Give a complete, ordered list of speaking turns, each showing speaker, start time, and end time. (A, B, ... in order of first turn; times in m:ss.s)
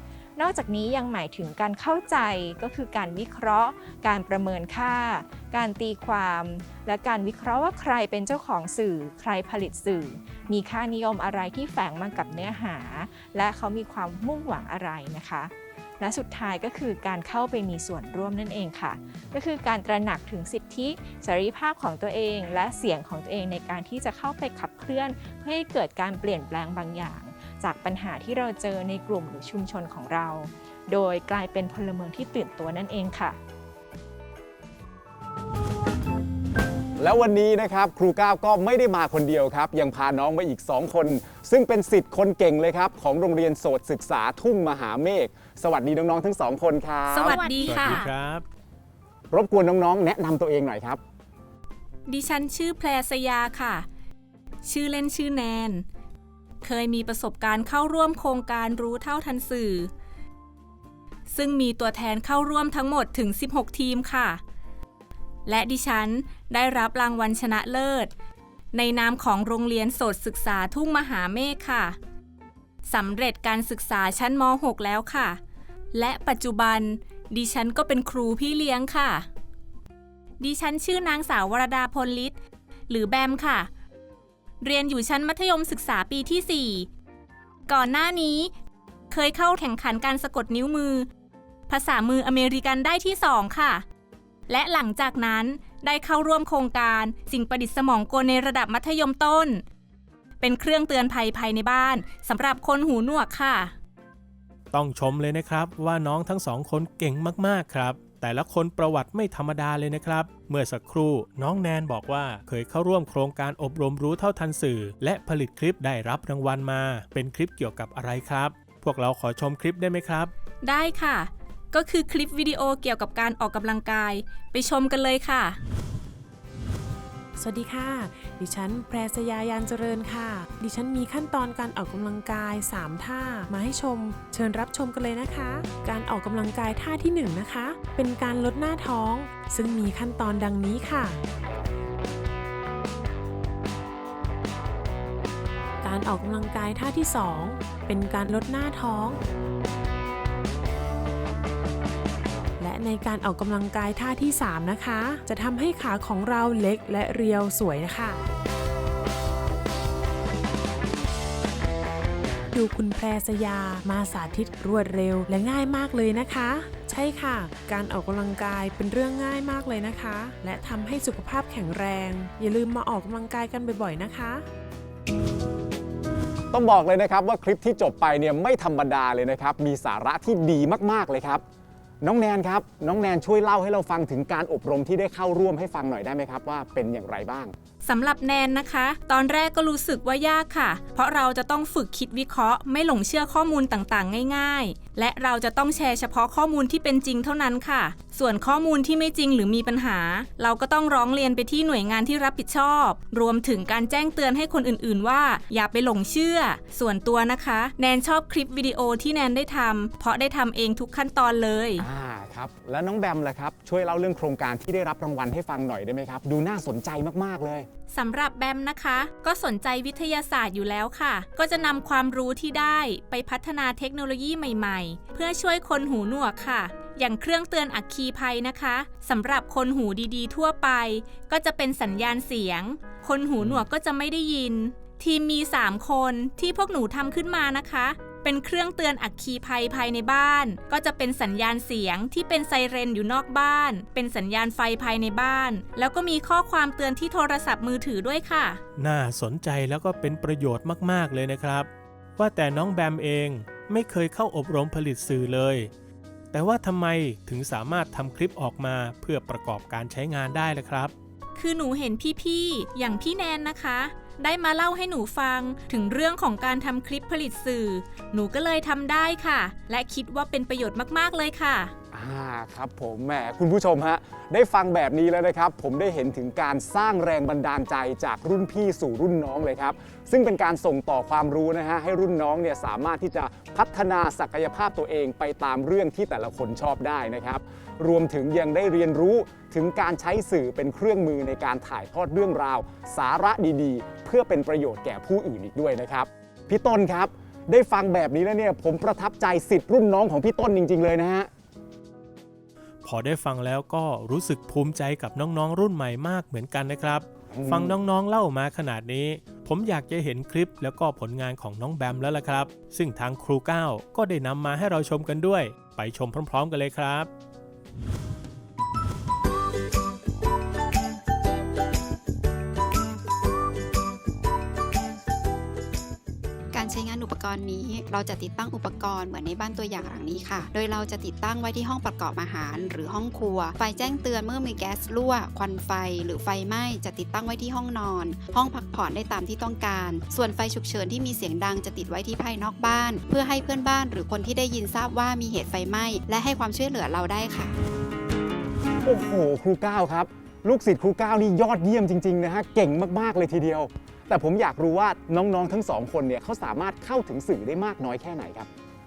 0:00.4-0:33.4 A
0:37.0-0:48.0 B
0:47.1-0:48.1 C
0:47.3-0:48.4 D
0:49.3-0:51.0 B
0:52.1-0:53.9 C
0:54.6-0:55.8 C
0:56.6-0:59.9 C
1:01.3-1:04.4 C
1:05.5-1:08.1 C
1:08.7-1:12.0 C
1:12.9-1:15.4 C
1:15.9-1:19.3 C
1:20.4-1:22.3 C
1:22.9-1:23.7 C
1:24.6-1:26.9 C
1:27.7-1:28.5 C
1:29.1-1:31.1 C
1:31.7-1:33.8 C
1:34.5-1:39.6 C
1:40.4-1:43.7 C
1:44.7-2:00.3 D
2:00.6-2:05.6 C
2:07.4-2:21.2 E
2:25.8-2:29.2 E
2:32.6-2:38.2 E
2:42.5-2:54.5 E
2:56.5-3:01.4 B
3:02.0-3:07.5 B
3:07.8-3:31.9 C
3:31.8-3:37.7 B
3:37.9-4:08.6 C
4:08.8-4:15.7 D
4:16.3-4:20.9 D
4:21.4-4:31.7 C
4:31.9-5:01.3 B
5:02.8-5:17.1 D
5:07.3-5:07.7 B
5:26.5-5:47.6 F
5:48.8-5:58.5 B